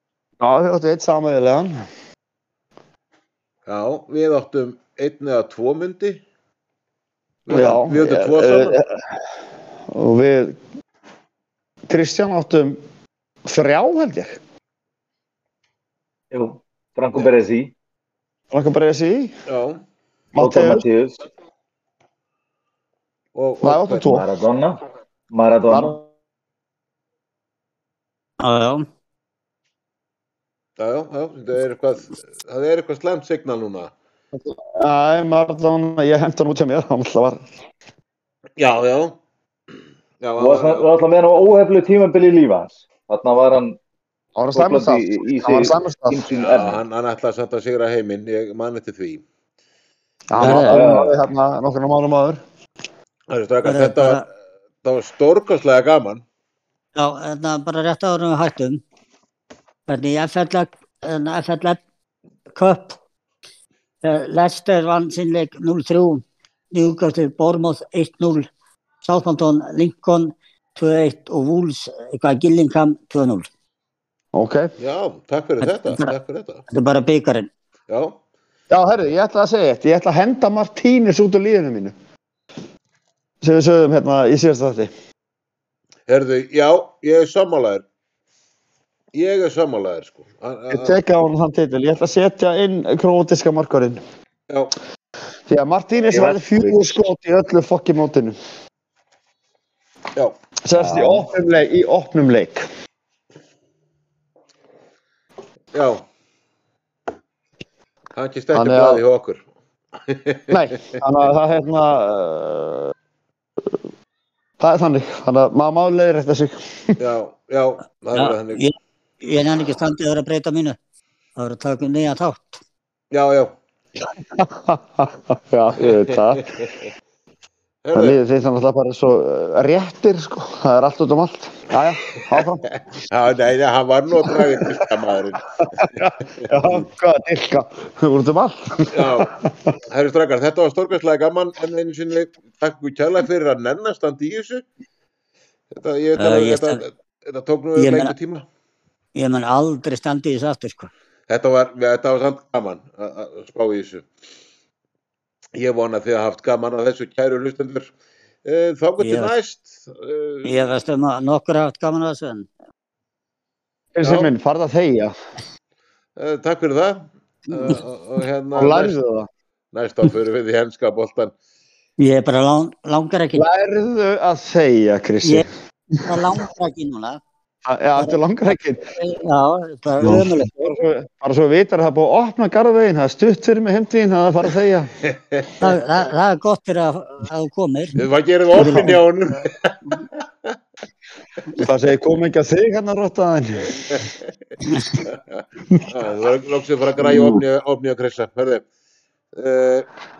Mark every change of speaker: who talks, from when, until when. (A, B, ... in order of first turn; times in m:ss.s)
0:00.4-0:01.7 A
0:03.6-0:06.2 B
0:07.4-0:08.8 B
0:07.5-0:08.8 A
0:09.9-0:10.6 A
0:11.9-0:12.8 A
0:13.4-0:14.4 A
0:16.3-0:17.7 C
0:18.5-0:19.3 A
0:19.5-0:19.8 B
0:20.3-0:20.8 A
0:20.4-0:21.2 C
0:23.3-0:24.0 B
0:23.6-0:24.3 A
0:24.0-0:24.8 C
0:25.3-0:26.0 C
0:25.7-0:26.0 A
0:28.4-0:28.9 D
0:30.8-0:33.9 B
0:34.3-0:37.4 A
0:38.6-0:39.2 B
0:40.2-0:40.9 B
0:40.4-0:43.8 C
0:44.4-0:46.2 A
0:44.5-0:46.8 C
0:46.3-0:49.2 B
0:50.3-0:52.4 A
0:50.4-0:50.8 D
0:50.4-0:51.2 C
0:53.3-0:54.2 B
0:53.6-0:54.2 D
0:54.8-0:56.2 B
0:56.9-0:58.8 D
0:59.9-1:01.8 D
1:02.5-1:03.0 D
1:04.0-1:08.5 D
1:09.0-1:13.5 D
1:14.3-1:14.7 A
1:14.8-1:16.6 B
1:15.6-1:16.1 D
1:16.7-1:17.5 D
1:17.9-1:18.2 B
1:18.7-1:21.9 A
1:23.4-1:24.9 A
1:26.1-1:27.8 B
1:29.1-1:31.0 B
1:30.7-1:34.0 A
1:34.5-1:34.7 B
1:35.5-1:38.3 A
1:36.1-1:37.0 C
1:40.6-1:42.6 A
1:40.7-1:41.3 C
1:45.7-1:46.0 B
1:48.1-1:49.4 B
1:48.5-1:49.0 A
1:50.0-1:51.0 B
1:50.5-1:52.9 A
1:54.6-1:56.9 A
1:57.0-1:58.6 B
1:58.1-2:00.8 D
2:01.4-2:02.6 D
2:03.1-2:03.5 B
2:04.1-2:06.5 A
2:05.8-2:06.7 B
2:07.8-2:08.2 B
2:07.9-2:12.6 A
2:13.0-2:16.5 B
2:14.2-2:14.9 A
2:15.8-2:19.5 A
2:18.9-2:19.3 B
2:19.9-2:24.6 B
2:25.7-2:28.4 B
2:26.2-2:26.8 D
2:27.8-2:28.1 D
2:29.1-2:30.9 D
2:31.3-2:34.1 B
2:35.5-2:37.9 B
2:38.4-2:40.7 B
2:39.0-2:39.3 D
2:40.4-2:42.5 D
2:43.9-2:45.1 A
2:44.0-2:44.3 B
2:46.2-2:48.9 B
2:48.6-2:49.3 A
2:49.7-2:51.3 B
2:52.0-2:53.4 D
2:53.3-2:55.4 A
2:56.0-2:57.2 D
2:57.6-2:58.8 A
2:58.8-3:00.8 D
3:00.0-3:04.9 A
3:05.0-3:05.7 B
3:05.6-3:09.0 D
3:08.0-3:10.6 B
3:11.6-3:13.9 A
3:15.0-3:18.6 B
3:17.0-3:17.4 A
3:19.4-3:19.9 B